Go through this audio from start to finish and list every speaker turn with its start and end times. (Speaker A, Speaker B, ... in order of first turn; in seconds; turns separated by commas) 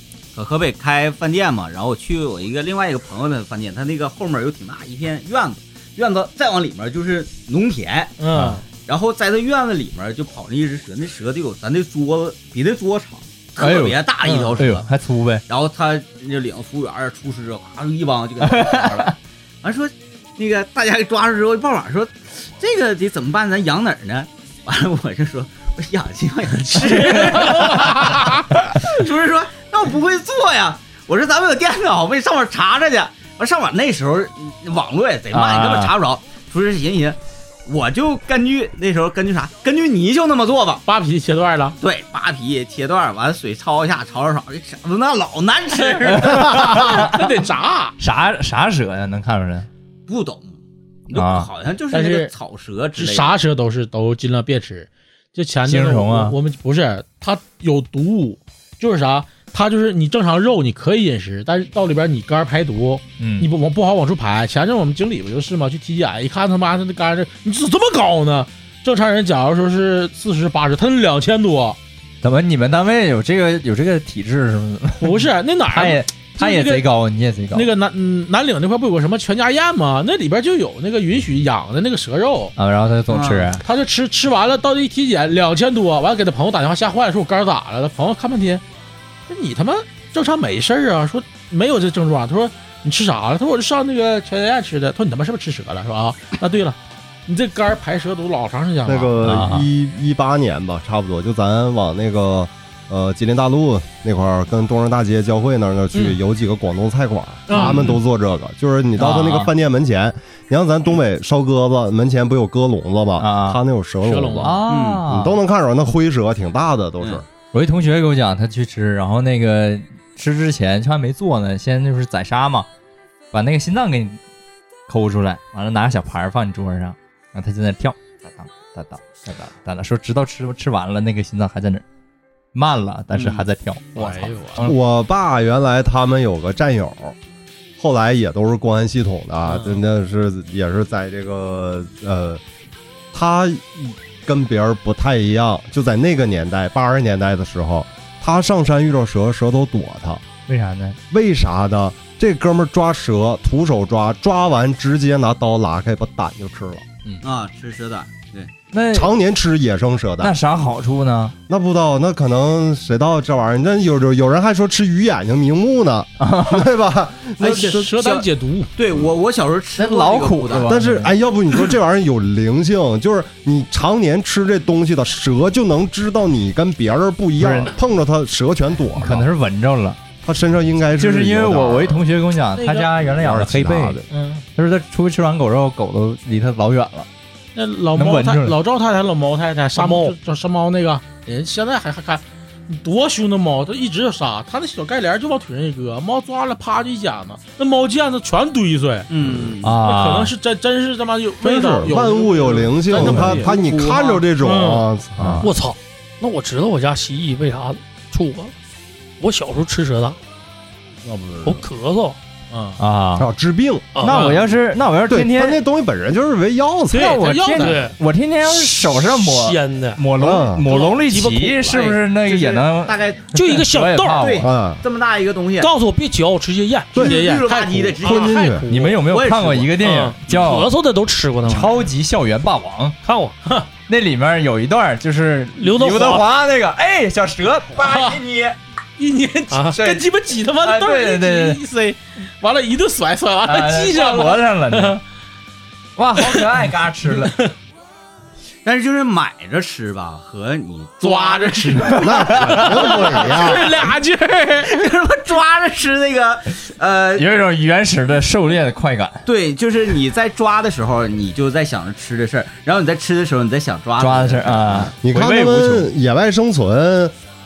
Speaker A: 0.3-8.2, Speaker B: 8.2-8.6, Speaker C: 8.3-8.6, Speaker A: 8.9-14.9, Speaker C: 13.6-14.0, Speaker B: 14.2-14.5, Speaker C: 14.6-15.4, Speaker A: 15.5-40.9, Speaker C: 18.4-19.1, Speaker B: 26.9-28.4, Speaker C: 35.3-35.9, Speaker B: 40.9-41.8, Speaker A: 41.8-46.7, Speaker B: 46.0-48.0, Speaker C: 46.1-47.3, Speaker C: 48.0-49.7, Speaker A: 50.1-50.6, Speaker A: 51.1-53.3, Speaker C: 51.1-51.5, Speaker B: 51.9-52.3, Speaker B: 53.0-71.8, Speaker C: 55.7-56.4, Speaker C: 63.2-63.5, Speaker C: 72.2-77.7, Speaker B: 75.0-76.8, Speaker B: 77.5-82.5, Speaker C: 82.6-83.6, Speaker A: 83.1-83.5, Speaker B: 83.6-88.6, Speaker B: 89.3-99.2, Speaker D: 98.8-117.2, Speaker C: 99.2-99.7, Speaker B: 107.5-107.9, Speaker C: 107.5-107.9, Speaker C: 109.0-109.5, Speaker C: 113.2-113.6, Speaker B: 114.1-114.5, Speaker C: 114.4-115.4, Speaker A: 114.7-115.0, Speaker C: 117.5-122.7, Speaker C: 123.3-124.2, Speaker C: 124.9-131.8, Speaker C: 132.5-134.8, Speaker B: 133.9-134.7, Speaker D: 134.6-137.2, Speaker D: 137.8-142.4, Speaker D: 143.1-150.2, Speaker C: 150.5-151.0, Speaker D: 151.1-156.9, Speaker A: 157.2-158.5, Speaker C: 158.7-159.1, Speaker D: 158.9-160.3, Speaker C: 160.2-161.3, Speaker D: 161.5-167.9, Speaker C: 166.2-166.7, Speaker A: 167.4-170.7, Speaker B: 167.6-168.7, Speaker C: 169.8-171.1, Speaker D: 170.6-179.3, Speaker C: 177.4-177.7, Speaker C: 179.0-180.0, Speaker D: 180.2-182.1, Speaker C: 181.0-184.0, Speaker B: 182.6-182.9, Speaker D: 183.2-184.1, Speaker B: 184.1-184.4, Speaker C: 184.6-187.1, Speaker B: 187.6-199.1, Speaker C: 187.9-188.6, Speaker E: 189.8-190.2, Speaker A: 199.1-199.8, Speaker C: 199.6-200.3, Speaker B: 199.8-204.8, Speaker D: 201.4-205.5, Speaker C: 202.9-203.4, Speaker A: 203.5-204.2, Speaker C: 205.2-205.5, Speaker E: 205.4-208.5, Speaker E: 209.2-210.2, Speaker E: 211.4-212.2, Speaker B: 212.5-212.8, Speaker C: 212.8-213.3, Speaker D: 213.2-214.0, Speaker E: 214.0-214.4, Speaker C: 214.0-215.6, Speaker B: 214.1-214.4, Speaker D: 215.1-217.2, Speaker B: 216.9-217.9, Speaker C: 216.9-224.5, Speaker E: 217.6-220.0, Speaker D: 220.2-220.7, Speaker E: 220.7-221.9, Speaker A: 221.8-223.3, Speaker E: 223.3-224.3, Speaker A: 224.1-225.7, Speaker D: 224.4-224.8, Speaker E: 225.6-227.0, Speaker D: 226.9-227.2, Speaker B: 226.9-228.7, Speaker A: 227.0-229.7, Speaker D: 228.0-228.7, Speaker E: 228.5-228.9, Speaker C: 228.7-230.7, Speaker E: 229.8-231.8, Speaker C: 231.4-233.0, Speaker E: 233.0-233.4, Speaker C: 233.9-238.6, Speaker E: 235.6-236.3, Speaker B: 237.8-238.2, Speaker B: 239.0-245.0, Speaker E: 239.5-239.8, Speaker C: 239.8-240.1, Speaker C: 240.6-241.6, Speaker C: 243.4-245.0, Speaker C: 246.0-247.3, Speaker B: 246.2-246.5, Speaker B: 247.1-247.5, Speaker A: 248.7-252.4, Speaker B: 251.0-254.8, Speaker D: 252.0-253.7, Speaker C: 252.1-252.8, Speaker A: 254.7-257.2, Speaker C: 257.2-259.2, Speaker A: 259.2-264.9, Speaker C: 264.0-265.9, Speaker D: 265.0-267.1